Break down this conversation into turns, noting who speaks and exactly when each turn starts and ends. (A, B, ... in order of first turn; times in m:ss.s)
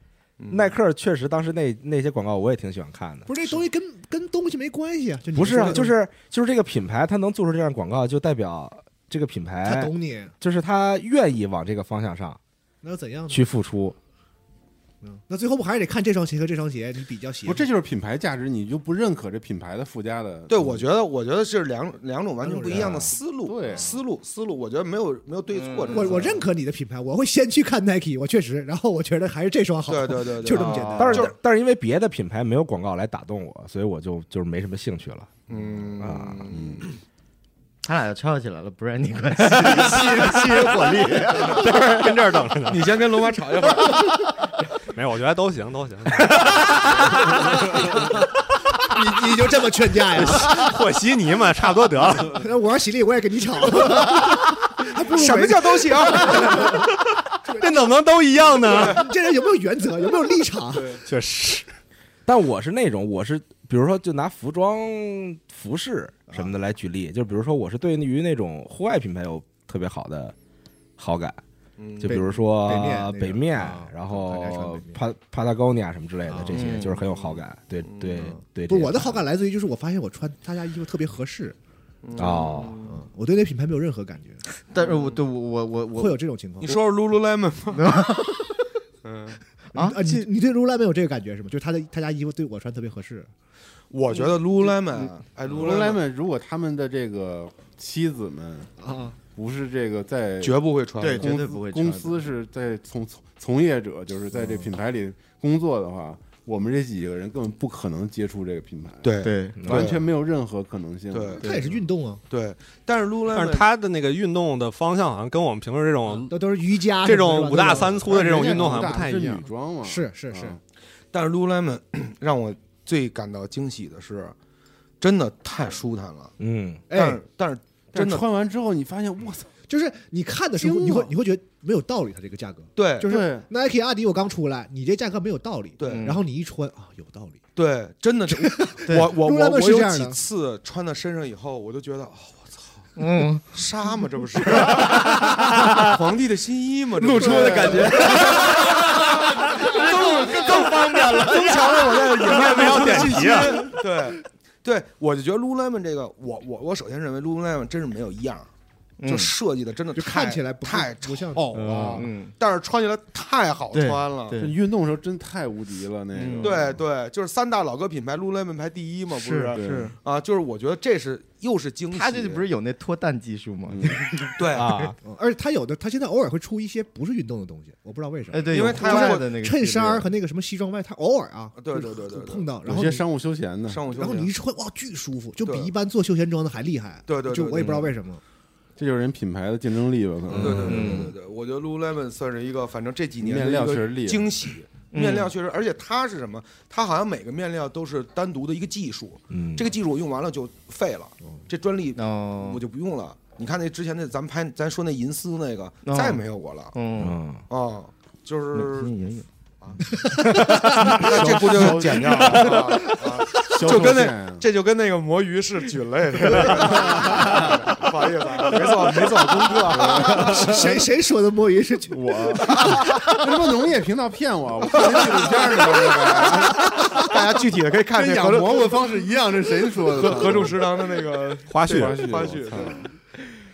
0:00.4-0:00.8 A
0:00.5-0:03.3 B
0:03.2-0:06.0 C
0:05.3-0:12.4 B
0:09.6-0:10.3 C
0:12.8-0:13.4 C
0:13.3-0:14.0 B
0:15.0-0:17.7 C
0:17.4-0:20.9 D
0:20.5-0:26.4 A
0:22.4-0:23.0 C
0:22.7-0:23.1 B
0:23.4-0:23.9 D
0:23.7-0:24.0 C
0:25.5-0:26.2 E
0:25.9-0:31.3 C
0:29.8-0:31.4 A
0:31.0-0:35.3 B
0:35.5-0:36.9 A
0:36.0-0:36.5 B
0:36.5-0:36.8 D
0:37.8-0:40.9 E
0:39.6-0:41.7 C
0:39.6-0:43.0 F
0:42.6-0:44.0 A
0:44.9-0:48.2 F
0:48.9-0:50.6 C
0:50.1-0:52.4 F
0:52.3-0:56.9 C
0:55.1-0:56.8 A
0:56.2-0:59.0 F
0:57.4-0:57.8 C
0:58.7-1:01.0 C
1:01.0-1:01.7 F
1:02.2-1:10.3 B
1:11.0-1:11.4 B
1:11.8-1:12.4 A
1:12.0-1:19.2 B
1:12.1-1:15.0 C
1:16.3-1:16.7 C
1:16.5-1:17.0 E
1:17.0-1:18.3 A
1:18.2-1:21.6 C
1:22.0-1:23.0 A
1:22.2-1:22.8 B
1:22.8-1:24.4 C
1:24.6-1:26.2 E
1:24.8-1:25.2 A
1:25.9-1:26.8 C
1:26.6-1:28.0 A
1:27.8-1:28.4 E
1:29.0-1:29.4 A
1:29.7-1:30.2 E
1:29.7-1:33.3 C
1:33.9-1:36.0 A
1:34.1-1:35.7 E
1:35.5-1:38.7 D
1:38.8-1:39.2 C
1:39.2-1:40.6 D
1:40.4-1:41.4 A
1:41.0-1:42.3 E
1:41.1-1:49.1 D
1:49.0-1:50.1 A
1:49.2-1:49.6 E
1:49.6-1:50.0 B
1:49.6-1:51.4 D
1:51.1-1:51.5 A
1:51.4-1:52.2 C
1:52.3-1:53.7 A
1:53.3-1:56.3 F
1:56.2-1:58.6 C
1:56.8-1:59.5 F
1:58.0-2:00.6 D
1:59.8-2:00.6 C
2:01.1-2:04.3 A
2:05.0-2:06.3 A
2:06.4-2:06.8 B
2:06.9-2:07.2 C
2:06.9-2:08.2 A
2:07.9-2:09.6 D
2:09.7-2:17.4 C
2:10.6-2:11.1 D
2:12.7-2:13.1 A
2:13.1-2:13.5 D
2:15.8-2:16.0 A
2:15.8-2:16.2 E
2:17.5-2:22.9 A
2:18.3-2:20.2 C
2:23.0-2:23.4 E
2:23.5-2:38.5 A
2:25.4-2:25.8 B
2:27.0-2:28.0 D
2:27.2-2:27.7 C
2:27.4-2:28.7 B
2:32.2-2:33.7 F
2:39.0-2:39.3 E
2:39.0-2:44.4 A
2:39.9-2:41.9 C
2:41.5-2:42.0 B
2:41.8-2:42.3 E
2:43.7-2:44.5 E
2:44.4-2:46.8 D
2:46.1-2:46.5 E
2:46.4-2:52.4 A
2:49.1-2:49.9 E
2:49.5-2:49.9 D
2:51.9-2:54.9 E
2:53.7-2:54.1 D
2:54.4-2:54.8 A
2:54.5-2:54.9 B
2:55.0-3:03.0 C
2:58.3-3:00.1 E
2:58.5-2:59.3 A
3:01.6-3:02.5 A
3:02.6-3:03.8 D
3:03.7-3:04.3 A
3:03.9-3:08.2 C
3:05.4-3:05.7 A
3:07.0-3:07.9 A
3:08.8-3:11.1 D
3:10.3-3:11.1 E
3:10.3-3:26.7 A
3:13.2-3:14.3 D
3:14.9-3:15.3 E
3:19.3-3:19.7 B
3:22.0-3:22.6 E
3:25.8-3:26.2 E
3:26.7-3:27.2 E
3:27.0-3:27.4 B
3:27.5-3:28.9 A
3:28.6-3:29.2 E
3:29.6-3:40.6 A
3:30.0-3:31.0 C
3:30.9-3:34.4 D
3:36.6-3:37.5 D
3:38.6-3:40.8 D
3:40.1-3:42.6 C
3:41.9-3:47.0 D
3:42.4-3:43.1 A
3:44.6-3:48.8 A
3:47.9-3:50.8 D
3:49.8-3:52.9 A
3:51.5-3:52.2 F
3:51.6-3:52.9 D